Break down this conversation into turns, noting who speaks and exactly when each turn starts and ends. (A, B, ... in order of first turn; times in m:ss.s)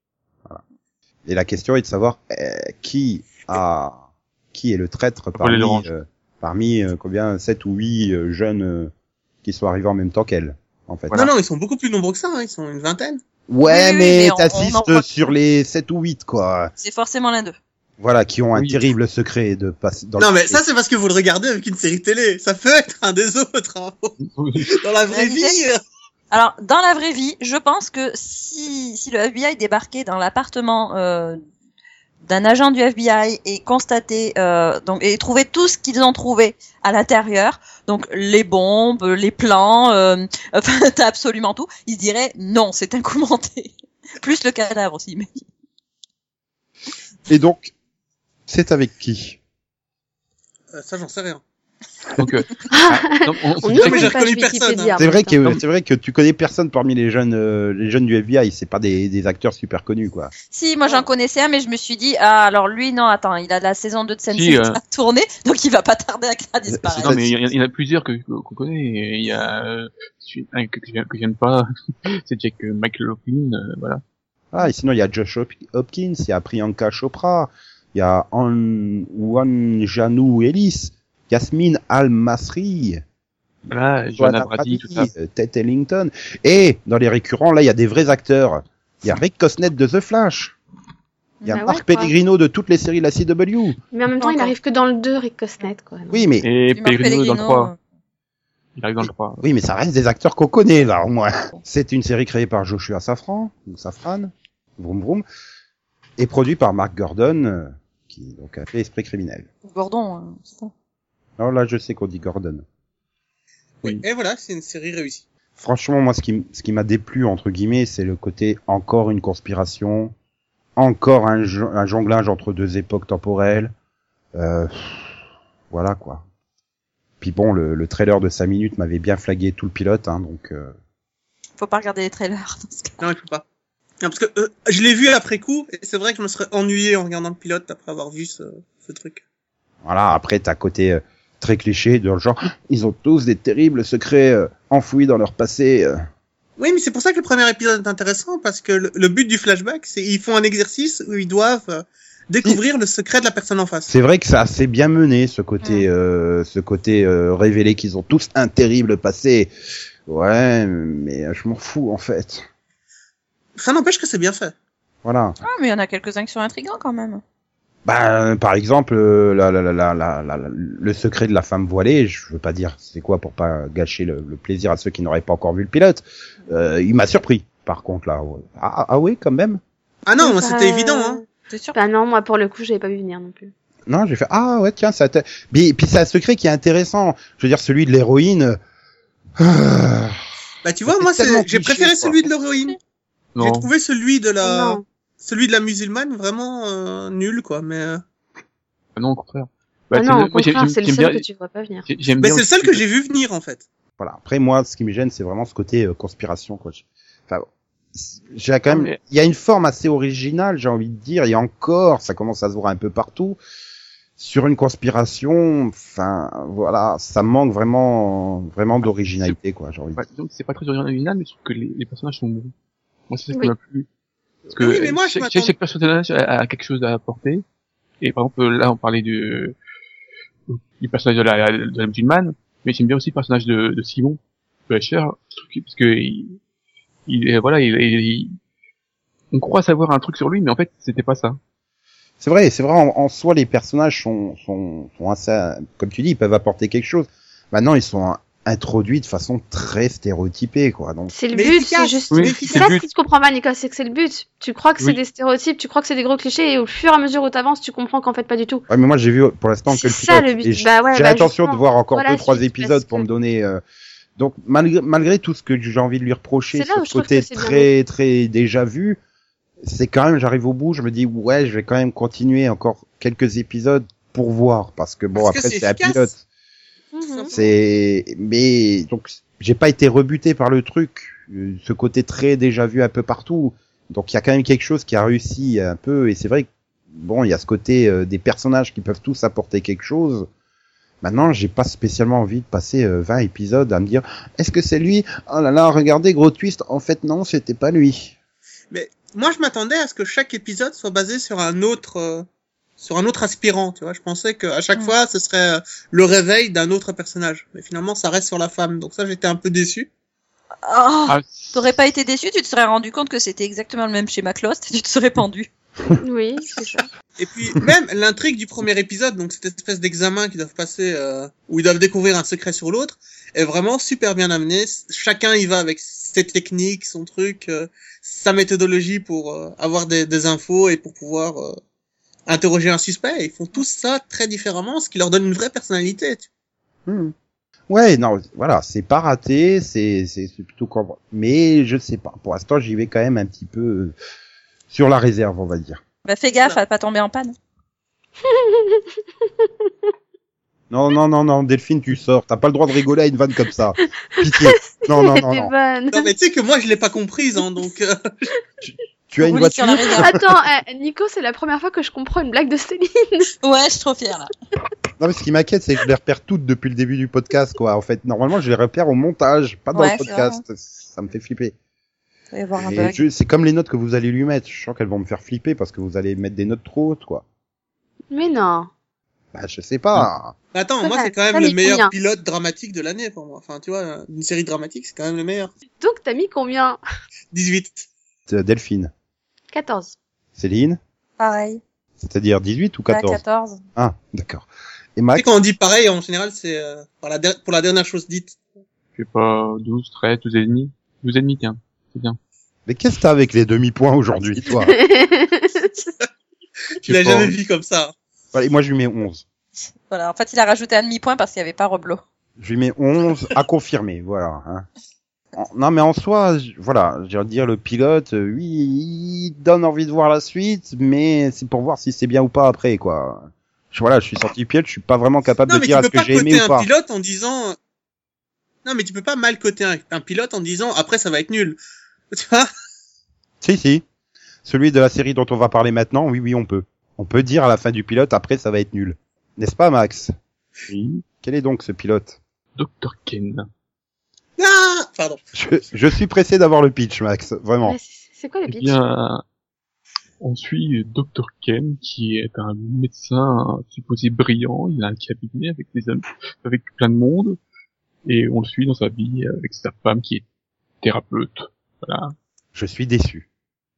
0:01.2-0:04.0 A
0:04.5-0:08.9 A
0:05.4-0:05.9 B
0:09.4-0:11.2 A
0:11.1-0:13.2 C
0:13.5-0:16.7 A
0:13.6-0:15.1 D
0:16.8-0:17.6 D
0:18.0-0:20.6 A
0:18.5-0:18.8 B
0:20.2-0:24.2 C
0:24.2-0:24.8 B
0:24.7-0:25.8 C
0:25.1-0:25.6 D
0:26.3-0:31.4 D
0:32.2-0:45.4 D
0:47.3-0:47.7 A
0:48.5-0:49.4 A
0:50.7-0:51.4 C
0:52.2-0:54.1 B
0:52.7-0:55.4 E
0:53.7-0:55.0 C
0:55.0-1:00.3 A
1:00.5-1:07.2 D
1:04.3-1:04.8 B
1:06.7-1:07.3 A
1:07.0-1:14.0 B
1:14.5-1:23.0 A
1:23.7-1:25.1 B
1:24.1-1:30.6 A
1:31.4-1:32.1 D
1:31.4-1:33.8 A
1:31.5-1:31.8 E
1:33.9-1:36.2 E
1:34.2-1:34.5 D
1:36.1-1:36.5 A
1:36.4-1:37.7 B
1:36.7-1:37.8 D
1:38.8-1:39.4 B
1:39.0-1:45.2 A
1:46.2-1:49.5 A
1:49.6-1:50.7 D
1:51.4-1:52.6 A
1:53.8-1:55.2 C
1:55.6-2:00.1 A
2:00.8-2:03.7 A
2:04.3-2:05.1 A
2:05.7-2:06.2 A
2:07.2-2:10.7 A
2:11.6-2:13.1 D
2:13.0-2:13.4 C
2:14.0-2:19.2 C
2:19.8-2:26.0 A
2:26.6-2:33.9 C
2:33.9-2:39.5 A
2:40.1-2:42.5 A
2:43.6-2:44.5 C
2:45.0-2:45.4 A
2:45.4-2:47.2 D
2:47.8-2:59.6 A
3:00.0-3:01.2 C
3:00.2-3:01.2 E
3:01.5-3:01.8 D
3:01.7-3:03.5 E
3:03.9-3:08.6 A
3:09.4-3:10.2 A
3:10.6-3:12.8 C
3:10.9-3:12.2 A
3:13.4-3:13.7 B
3:13.4-3:18.0 C
3:14.4-3:14.8 E
3:19.0-3:21.2 B
3:19.9-3:21.8 E
3:21.8-3:22.8 B
3:22.2-3:23.6 C
3:24.0-3:33.4 A
3:28.7-3:29.0 B
3:34.2-3:40.0 A
3:38.8-3:39.4 B
3:40.0-3:42.5 B
3:43.1-3:43.9 B
3:44.5-3:47.4 B
3:44.6-3:45.5 C
3:48.0-3:49.5 B
3:50.5-3:56.4 B
3:57.1-3:58.3 B
3:59.3-4:01.4 B
4:02.2-4:11.1 A
4:11.1-4:18.6 E
4:11.3-4:12.8 C
4:12.1-4:12.8 B
4:18.7-4:23.6 A
4:19.7-4:23.1 E
4:24.2-4:29.0 A
4:26.5-4:27.7 E
4:29.6-4:36.2 A
4:35.1-4:36.1 C
4:36.9-4:37.3 E
4:37.0-4:37.4 C
4:37.3-4:50.3 A
4:51.0-4:58.1 A
4:58.7-5:02.2 C
5:02.8-5:09.9 C
5:10.6-5:15.5 D
5:11.1-5:11.6 B
5:16.0-5:16.9 E
5:17.2-5:31.6 C
5:32.3-5:36.2 C
5:36.8-5:37.1 A
5:37.7-5:43.9 A
5:44.7-5:45.8 A
5:46.0-5:47.3 D
5:48.2-5:48.8 E
5:50.7-5:55.5 A
5:54.2-5:56.1 E
5:55.9-5:58.1 C
5:58.6-6:00.2 A
5:59.2-6:00.1 D
6:00.0-6:03.3 E
6:03.4-6:04.3 D
6:05.0-6:11.5 A
6:09.7-6:10.4 D
6:12.3-6:13.0 D
6:12.6-6:17.2 A
6:18.1-6:18.7 E
6:19.3-6:20.3 A
6:20.5-6:25.5 C
6:20.8-6:21.9 E
6:25.8-6:26.8 E
6:27.3-6:27.9 C
6:28.3-6:28.9 A
6:29.5-6:30.0 E
6:30.4-6:30.8 A
6:31.2-6:31.6 D
6:32.0-6:33.2 A
6:32.9-6:33.6 D
6:33.8-6:35.2 A
6:35.1-6:38.4 C
6:39.0-6:42.2 B
6:42.7-6:44.8 A
6:44.6-6:45.7 E
6:46.8-6:47.9 C
6:46.9-6:47.3 B
6:48.3-6:49.2 A
6:49.9-6:52.0 D
6:52.4-6:54.7 A
6:55.3-7:06.7 A
7:05.5-7:07.6 C
7:08.6-7:11.6 C
7:12.1-7:12.5 C
7:13.4-7:13.8 A
7:14.4-7:20.1 A
7:20.7-7:22.2 A
7:22.6-7:23.5 B
7:24.4-7:25.2 C
7:25.3-7:27.8 A
7:27.6-7:28.8 E
7:28.5-7:29.2 B
7:30.2-7:37.4 B
7:38.0-7:40.2 B
7:40.8-7:42.1 B
7:42.5-7:43.3 A